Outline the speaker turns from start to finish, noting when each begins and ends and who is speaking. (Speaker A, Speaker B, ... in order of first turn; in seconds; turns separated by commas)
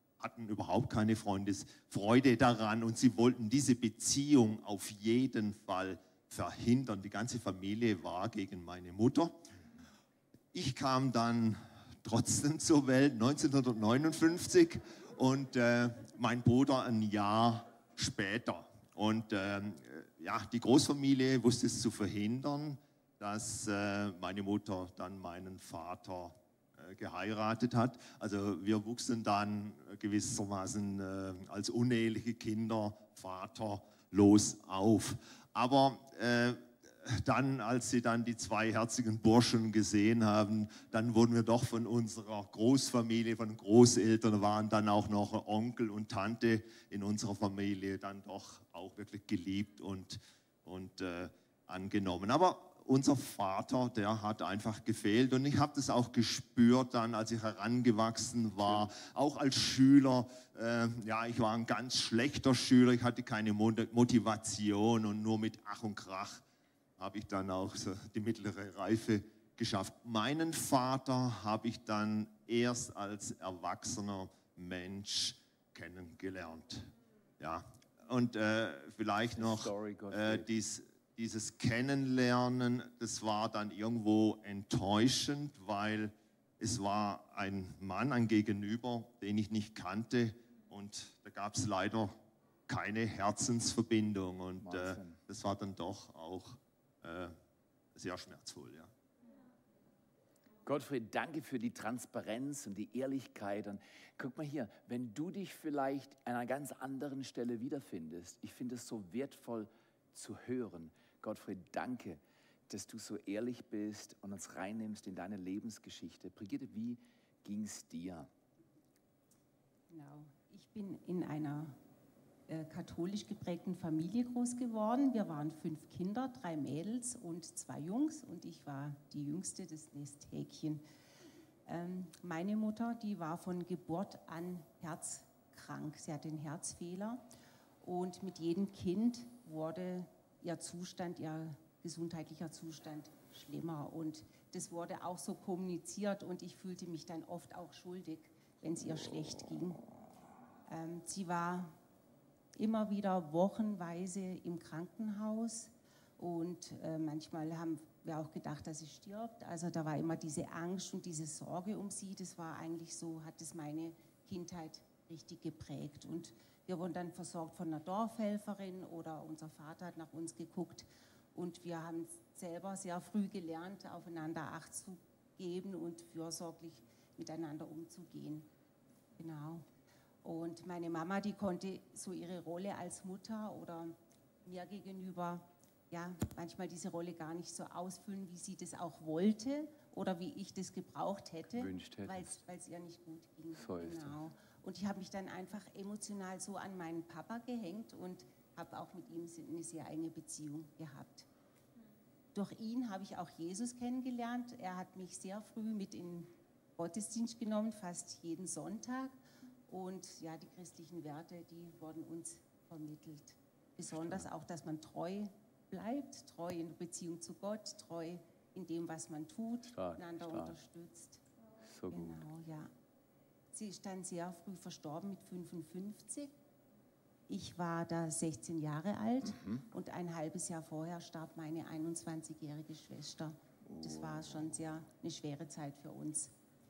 Speaker A: 0.2-9.4, Speaker A: 10.5-66.4, Speaker B: 58.6-58.9, Speaker A: 67.0-97.3, Speaker B: 79.3-80.5, Speaker B: 94.6-95.2, Speaker A: 97.9-98.9, Speaker B: 100.7-118.3, Speaker C: 119.9-121.8, Speaker C: 122.5-130.8, Speaker C: 131.7-137.2, Speaker C: 137.8-149.9, Speaker C: 150.7-151.8, Speaker C: 152.6-178.5, Speaker C: 179.2-179.7, Speaker C: 180.2-201.3, Speaker B: 191.5-192.4, Speaker B: 193.5-194.2, Speaker C: 202.3-209.2, Speaker C: 209.7-221.2, Speaker B: 213.9-214.3, Speaker B: 219.7-220.6, Speaker B: 221.7-222.2, Speaker C: 221.9-222.7, Speaker C: 223.5-226.3, Speaker C: 227.3-236.3, Speaker B: 229.2-229.6, Speaker B: 233.6-234.7